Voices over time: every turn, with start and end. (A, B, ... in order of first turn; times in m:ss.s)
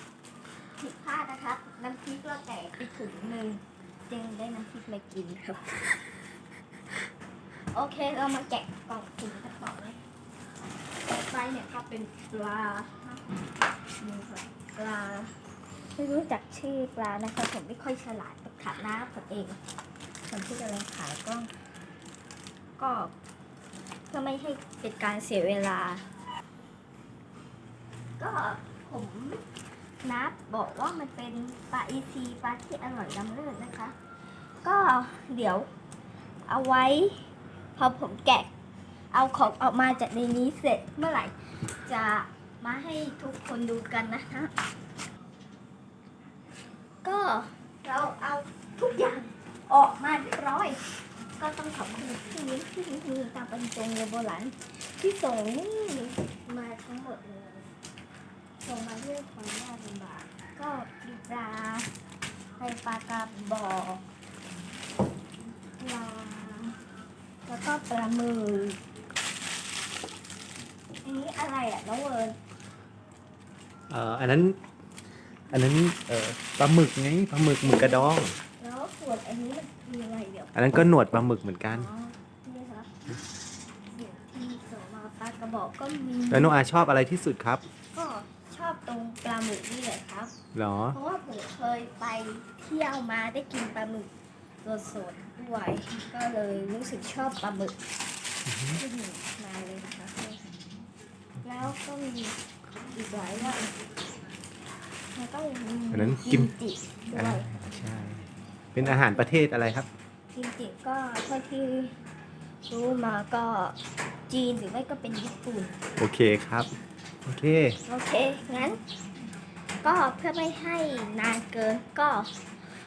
0:00.8-0:06.0 A
0:07.7-0:10.0 A
0:11.0-0:13.3 A
0:14.0-0:15.3 A
0:15.9-0:19.6 A
0:20.2-0:21.5 A
0:22.8-0:23.1 A
0:24.1-0:26.0 A
0:28.2-0:29.4 A
0:30.0-0:34.0 A
0:34.6-0:35.7 A
0:36.5-0:38.5 A
0:39.1-0:44.5 A
0:47.0-0:57.7 A
0:58.6-1:01.9 A
1:02.6-1:04.0 A
1:05.8-1:06.8 A
1:07.4-1:08.8 A
1:11.0-1:12.4 A
1:13.9-1:14.6 B
1:15.5-1:18.4 B
1:17.6-1:20.5 A
1:20.5-1:21.9 B
1:21.7-1:22.9 A
1:23.9-1:26.5 A
1:26.3-1:27.6 B
1:27.9-1:30.4 A
1:30.5-1:31.0 B
1:30.9-1:34.1 A
1:34.6-1:37.8 A
1:38.5-1:38.8 B
1:38.7-1:40.5 A
1:41.4-1:42.4 A
1:42.9-1:43.7 A
1:45.1-1:47.7 A
1:45.9-1:46.5 B
1:47.1-1:49.9 B
1:48.8-1:49.3 A
1:50.3-1:52.0 A
1:52.7-1:53.8 A
1:54.3-1:55.8 A
1:56.0-1:56.7 B
1:57.2-1:57.8 B
1:57.8-1:58.8 A
1:59.8-2:02.3 A